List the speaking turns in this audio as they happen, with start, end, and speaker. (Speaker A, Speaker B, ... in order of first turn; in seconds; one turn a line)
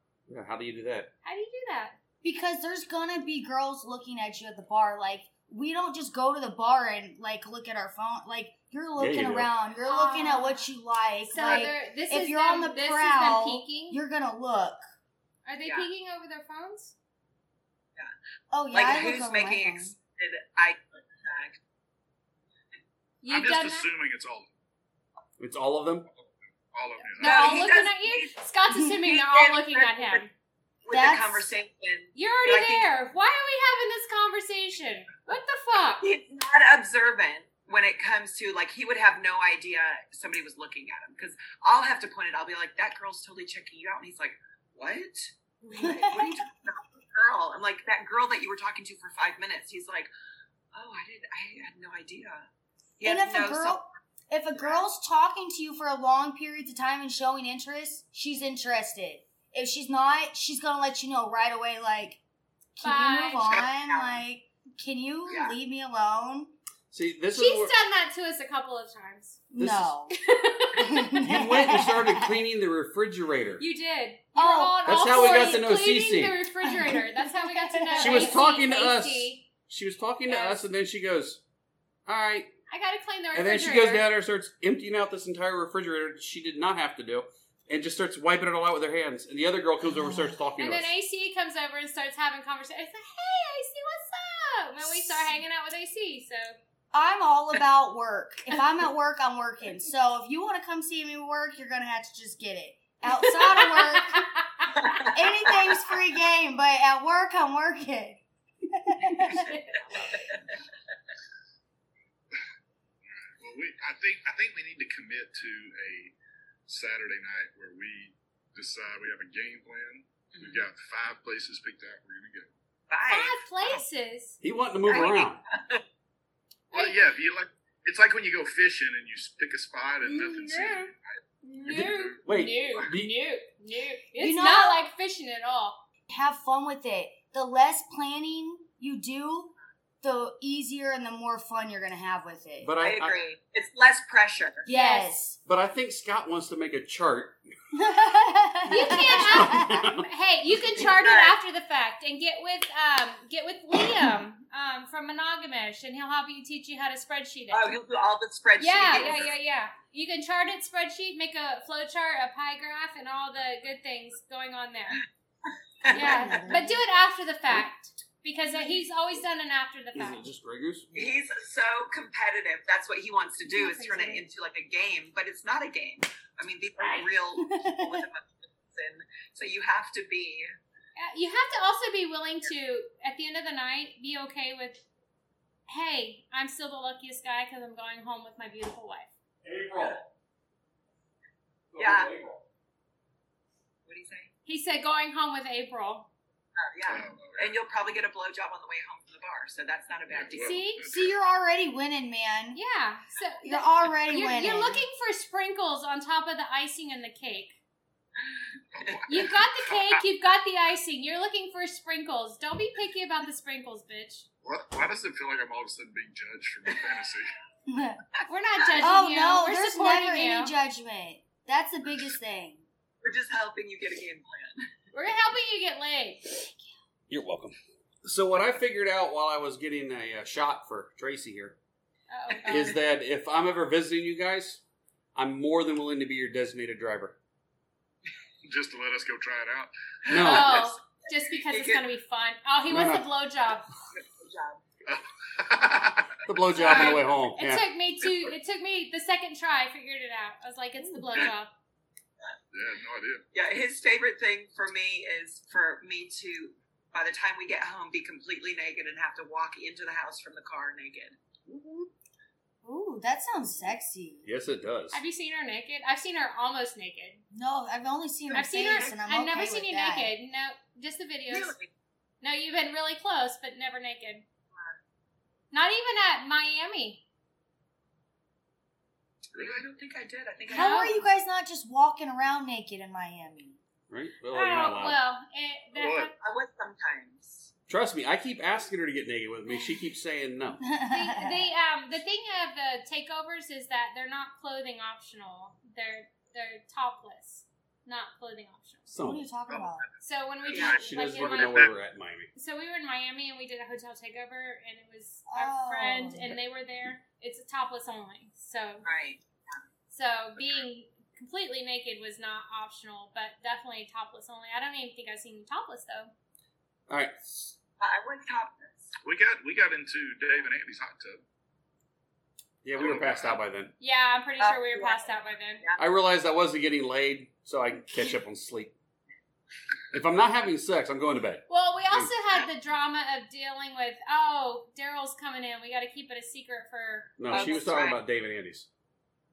Speaker A: 0.3-1.1
Speaker B: 1.2-2.0
Speaker C: 2.2-14.8
Speaker A: 9.0-9.5
Speaker B: 9.8-10.7
Speaker B: 11.2-14.0
Speaker B: 15.5-16.9
Speaker D: 15.6-15.9
Speaker C: 18.5-19.9
Speaker D: 18.7-21.6
Speaker B: 23.2-23.9
Speaker E: 23.3-24.5
Speaker A: 25.4-26.1
Speaker E: 26.7-27.7
Speaker B: 27.0-30.3
Speaker D: 27.2-28.4
Speaker C: 28.7-28.9
Speaker D: 29.1-30.3
Speaker D: 30.9-32.9
Speaker C: 30.9-31.5
Speaker B: 32.1-36.1
Speaker D: 36.0-50.1
Speaker C: 45.7-46.4
Speaker D: 50.7-53.8
Speaker C: 53.0-62.2
Speaker D: 54.6-54.8
Speaker C: 62.8-66.5
Speaker B: 62.8-63.5
Speaker D: 63.4-64.2
Speaker D: 65.3-65.6
Speaker A: 66.9-67.7
Speaker B: 67.3-69.4
Speaker C: 69.5-70.2
Speaker A: 69.6-69.9
Speaker B: 70.3-71.2
Speaker C: 70.8-72.4
Speaker A: 71.2-73.6
Speaker B: 73.6-79.4
Speaker C: 74.3-75.7
Speaker A: 74.9-76.4
Speaker C: 76.7-78.4
Speaker A: 78.0-81.4
Speaker B: 80.3-80.6
Speaker A: 82.1-82.5
Speaker B: 82.7-84.1
Speaker A: 83.3-90.9
Speaker C: 90.0-90.3
Speaker B: 90.6-96.6
Speaker C: 94.8-95.3
Speaker C: 96.9-104.3
Speaker B: 103.1-104.9
Speaker D: 104.8-105.8
Speaker C: 105.1-109.5
Speaker D: 109.9-110.6
Speaker E: 113.1-116.1
Speaker E: 116.7-122.5
Speaker D: 120.3-120.7
Speaker D: 122.9-123.4
Speaker B: 123.1-124.4
Speaker A: 124.4-125.4
Speaker D: 124.9-125.8
Speaker B: 126.7-127.0
Speaker E: 126.7-132.2
Speaker B: 130.0-135.8
Speaker A: 131.7-133.1
Speaker C: 134.2-134.8
Speaker C: 136.1-142.7
Speaker A: 142.6-143.2
Speaker D: 142.8-144.7
Speaker C: 144.6-145.4
Speaker B: 144.7-145.2
Speaker A: 145.5-147.4
Speaker C: 147.7-149.8
Speaker B: 148.7-157.7
Speaker A: 148.7-150.1
Speaker D: 150.8-151.4
Speaker D: 157.5-159.3
Speaker B: 158.6-165.1
Speaker D: 165.8-166.3
Speaker C: 165.8-166.8
Speaker B: 165.9-170.2
Speaker A: 169.9-170.9
Speaker D: 170.9-180.5
Speaker B: 173.5-174.2
Speaker C: 177.4-178.0
Speaker B: 181.0-184.8
Speaker B: 185.7-189.1
Speaker A: 189.4-190.1
Speaker A: 191.7-192.4
Speaker D: 191.8-192.1
Speaker D: 193.9-194.3
Speaker B: 194.5-196.1
Speaker D: 196.6-200.6
Speaker E: 196.9-197.5
Speaker E: 200.1-201.2
Speaker B: 200.4-200.9
Speaker C: 200.8-202.6
Speaker B: 202.5-207.6
Speaker C: 203.4-204.8
Speaker E: 208.7-209.8
Speaker B: 209.1-214.3
Speaker E: 214.4-217.3
Speaker C: 217.7-218.0
Speaker B: 218.2-220.5
Speaker C: 218.8-222.6
Speaker D: 223.0-224.7
Speaker B: 224.9-226.4
Speaker C: 226.3-226.7
Speaker A: 227.1-231.6
Speaker B: 232.1-232.8
Speaker A: 232.5-234.6
Speaker A: 235.2-237.2
Speaker E: 238.4-240.2
Speaker A: 240.1-240.7
Speaker B: 240.1-243.7
Speaker D: 241.5-241.8
Speaker A: 242.7-243.1
Speaker D: 244.2-244.6
Speaker E: 244.9-246.2
Speaker A: 246.3-247.7
Speaker B: 246.6-251.5
Speaker E: 252.5-253.2
Speaker D: 253.3-261.2
Speaker C: 261.5-261.9
Speaker C: 262.6-264.3
Speaker A: 264.2-265.0
Speaker B: 264.9-267.2
Speaker C: 267.3-270.1
Speaker B: 268.3-271.5
Speaker D: 271.3-271.7
Speaker B: 272.2-274.2
Speaker B: 275.5-277.0
Speaker D: 279.3-281.1
Speaker E: 279.4-279.6
Speaker C: 280.5-283.6
Speaker B: 280.5-281.0
Speaker A: 283.9-285.0
Speaker B: 284.3-286.1
Speaker E: 285.8-286.1
Speaker D: 286.2-287.5
Speaker A: 287.7-290.6
Speaker C: 290.6-291.5
Speaker B: 290.9-298.9
Speaker A: 298.9-299.3
Speaker C: 299.0-299.9
Speaker E: 299.5-299.9
Speaker B: 300.0-301.7
Speaker E: 300.4-301.7
Speaker A: 300.6-302.3
Speaker B: 302.3-308.9
Speaker C: 305.3-306.4
Speaker D: 308.9-309.2
Speaker B: 309.9-316.1
Speaker A: 316.9-317.5
Speaker D: 317.8-318.9
Speaker E: 319.0-321.2
Speaker A: 322.6-323.7
Speaker E: 322.8-323.4
Speaker B: 323.8-325.6
Speaker D: 324.4-325.1
Speaker A: 325.8-328.7
Speaker A: 329.9-332.1
Speaker B: 331.5-337.6
Speaker A: 337.2-338.7
Speaker D: 337.3-338.0